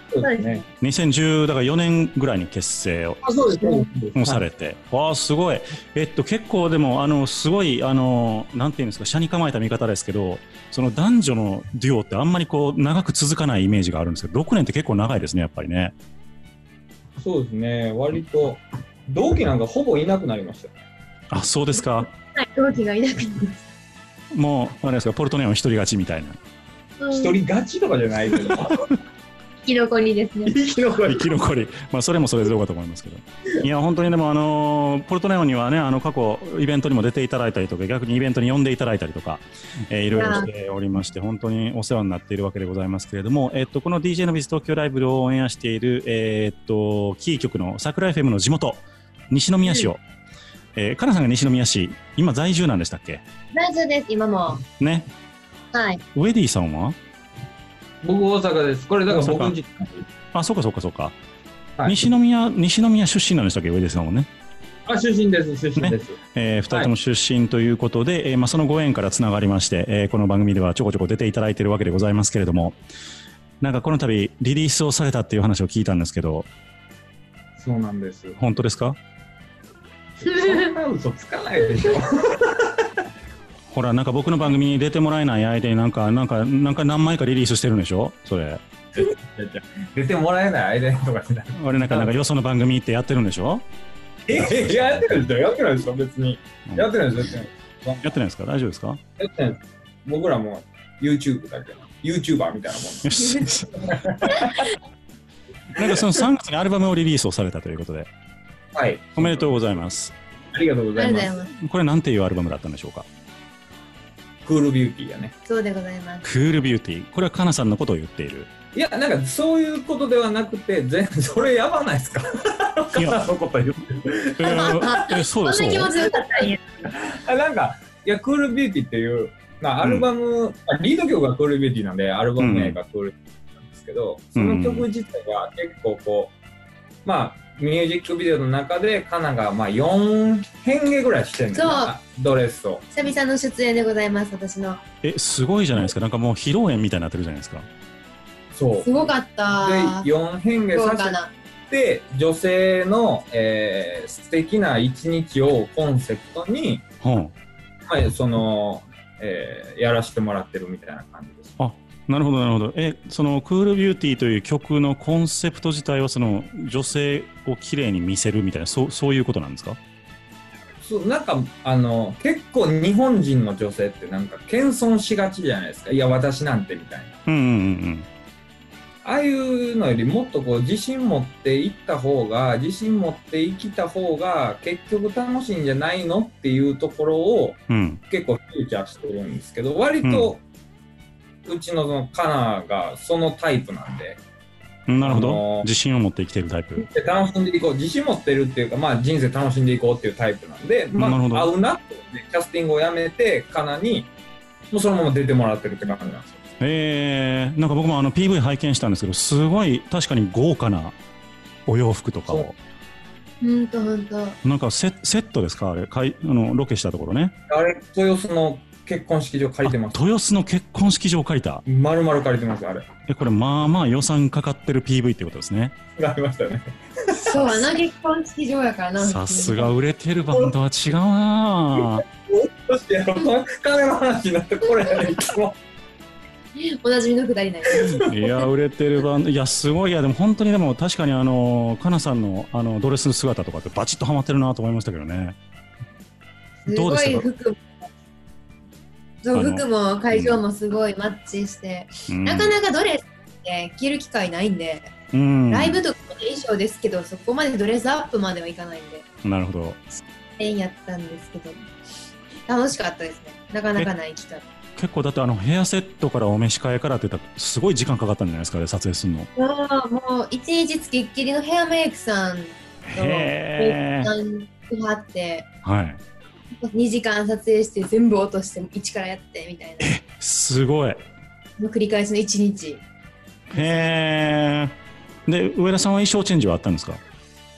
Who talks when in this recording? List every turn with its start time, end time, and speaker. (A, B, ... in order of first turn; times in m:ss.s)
0:00.1-0:00.6 A
0:00.2-0:00.6 B
0:00.8-0:03.2 C
0:03.2-0:04.4 A
0:03.6-0:03.8 B
0:04.1-0:15.9 C
0:17.2-0:20.8 A
0:21.3-0:22.1 C
0:22.0-0:23.7 B
0:24.3-0:26.4 C
0:27.0-0:27.3 B
0:27.1-0:28.9 A
0:29.6-0:30.5 B
0:30.4-0:31.3 A
0:31.0-0:50.0 C
0:40.1-0:40.5 B
0:50.7-0:53.2 C
0:53.5-0:54.6 B
0:54.8-0:55.1 C
0:55.7-0:56.0 B
0:56.1-0:57.0 C
0:58.0-1:00.1 A
0:59.1-0:59.5 C
1:00.3-1:01.2 C
1:01.8-1:04.3 C
1:04.8-1:06.2 A
1:05.8-1:12.8 C
1:13.6-1:16.5 C
1:17.6-1:18.4 A
1:18.4-1:19.0 C
1:20.2-1:22.8 A
1:20.2-1:20.7 B
1:23.7-1:28.6 C
1:28.9-1:32.2 A
1:31.5-1:33.6 C
1:34.3-1:38.1 A
1:34.3-1:35.3 C
1:36.7-1:37.0 C
1:38.0-1:39.0 C
1:39.2-1:44.6 A
1:43.0-1:44.2 C
1:45.7-1:48.1 C
1:48.7-1:49.5 A
1:49.2-1:50.1 C
1:50.5-1:51.3 A
1:50.9-1:51.5 B
1:51.5-1:53.0 C
1:54.4-1:55.3 A
1:55.4-1:56.2 B
1:56.2-1:58.5 C
1:58.7-2:04.9 A
2:02.9-2:03.2 C
2:04.4-2:06.0 C
2:04.4-2:06.6 B
2:06.8-2:16.3 A
2:09.8-2:10.1 C
2:12.4-2:12.8 C
2:14.4-2:14.9 C
2:17.0-2:22.8 A
2:21.5-2:21.9 B
2:22.9-2:24.8 B
2:25.0-2:27.7 C
2:28.5-2:28.9 A
2:28.8-2:30.1 B
2:29.6-2:31.2 A
2:30.7-2:31.3 B
2:31.7-2:36.8 A
2:37.0-2:37.3 C
2:37.8-2:41.6 A
2:41.6-2:49.8 C
2:50.8-2:57.1 A
2:57.3-2:58.1 C
2:59.0-3:10.4 A
3:07.7-3:08.0 C
3:10.0-3:10.3 C
3:11.4-3:14.2 A
3:14.9-3:16.9 C
3:15.0-3:15.7 A
3:16.8-3:24.1 A
3:21.0-3:21.5 C
3:24.7-3:26.4 A
3:26.6-3:31.0 C
3:31.6-3:32.5 C
3:33.4-3:34.4 B
3:34.4-3:37.3 C
3:37.5-3:40.0 A
3:39.6-3:41.6 C
3:41.7-3:42.9 A
3:43.1-3:45.8 C
3:46.0-3:47.6 A
3:47.2-3:49.7 B
3:49.0-3:52.0 C
3:51.8-3:55.6 A
3:56.6-3:58.1 B
3:57.8-3:58.1 A
3:58.0-4:05.4 C
4:06.6-4:07.8 B
4:06.7-4:07.3 C
4:09.2-4:14.9 B
4:09.3-4:10.4 C
4:12.1-4:12.5 C
4:15.1-4:15.8 C
4:15.5-4:19.0 B
4:19.2-4:19.8 C
4:19.9-4:21.6 B
4:22.5-4:24.4 B
4:24.8-4:29.3 C
4:29.4-4:35.5 B
4:32.8-4:34.1 C
4:35.6-4:36.0 C
4:36.6-4:39.9 B
4:39.8-4:41.0 C
4:41.6-4:42.8 B
4:43.5-4:47.0 C